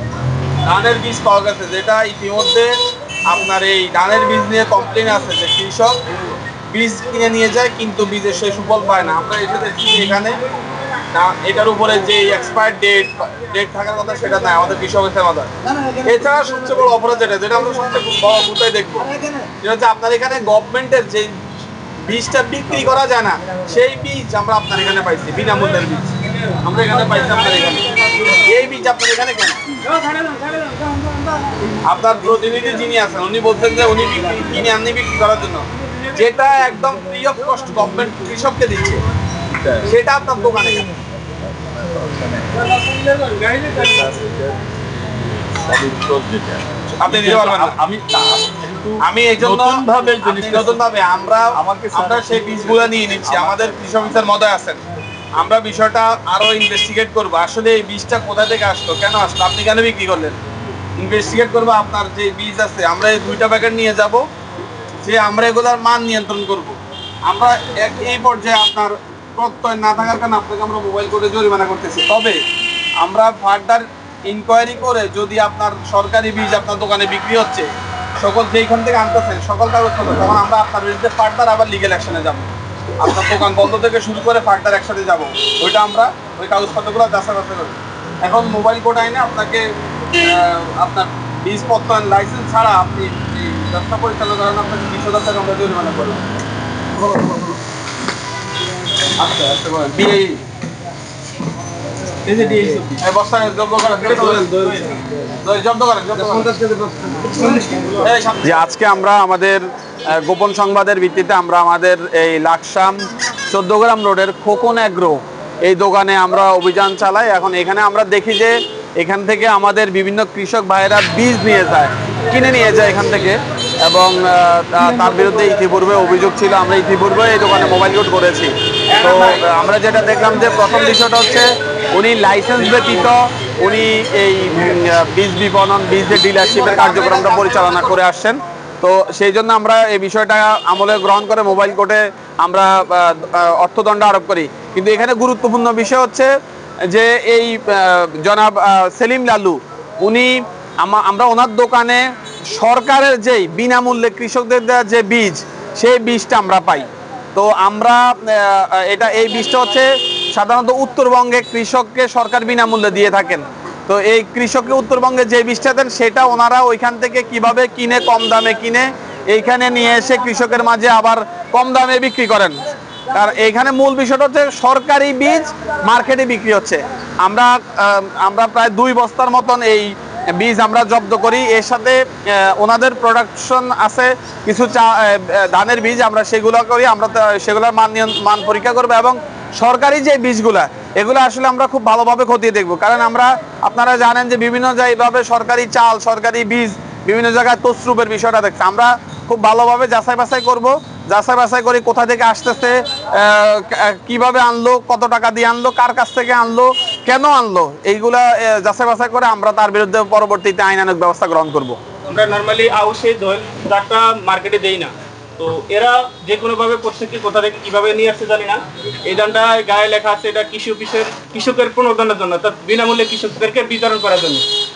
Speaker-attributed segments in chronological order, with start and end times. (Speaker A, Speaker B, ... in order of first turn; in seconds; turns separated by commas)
Speaker A: 0.7-2.7, Speaker A: 3.3-6.0, Speaker A: 6.7-10.4, Speaker A: 11.1-21.3, Speaker A: 22.1-29.6, Speaker B: 26.4-28.4, Speaker B: 29.9-31.8, Speaker A: 31.8-39.0, Speaker C: 39.5-39.9, Speaker A: 39.8-40.9, Speaker C: 41.9-42.5, Speaker B: 42.5-44.2, Speaker C: 43.8-44.7, Speaker C: 45.5-50.8, Speaker A: 47.0-47.8, Speaker A: 49.0-54.8, Speaker C: 51.5-54.0, Speaker A: 55.4-60.4, Speaker A: 61.0-64.2, Speaker A: 65.0-66.8, Speaker A: 67.3-72.4, Speaker A: 73.0-77.7, Speaker A: 78.2-96.3, Speaker A: 99.2-100.4, Speaker B: 102.2-103.0, Speaker A: 103.0-104.8, Speaker B: 104.0-105.0, Speaker A: 105.4-106.5, Speaker C: 106.2-107.6, Speaker B: 107.1-108.1, Speaker A: 108.0-146.3, Speaker C: 132.7-133.1, Speaker C: 136.3-137.8, Speaker A: 146.9-172.6, Speaker A: 173.1-211.8, Speaker B: 212.1-224.5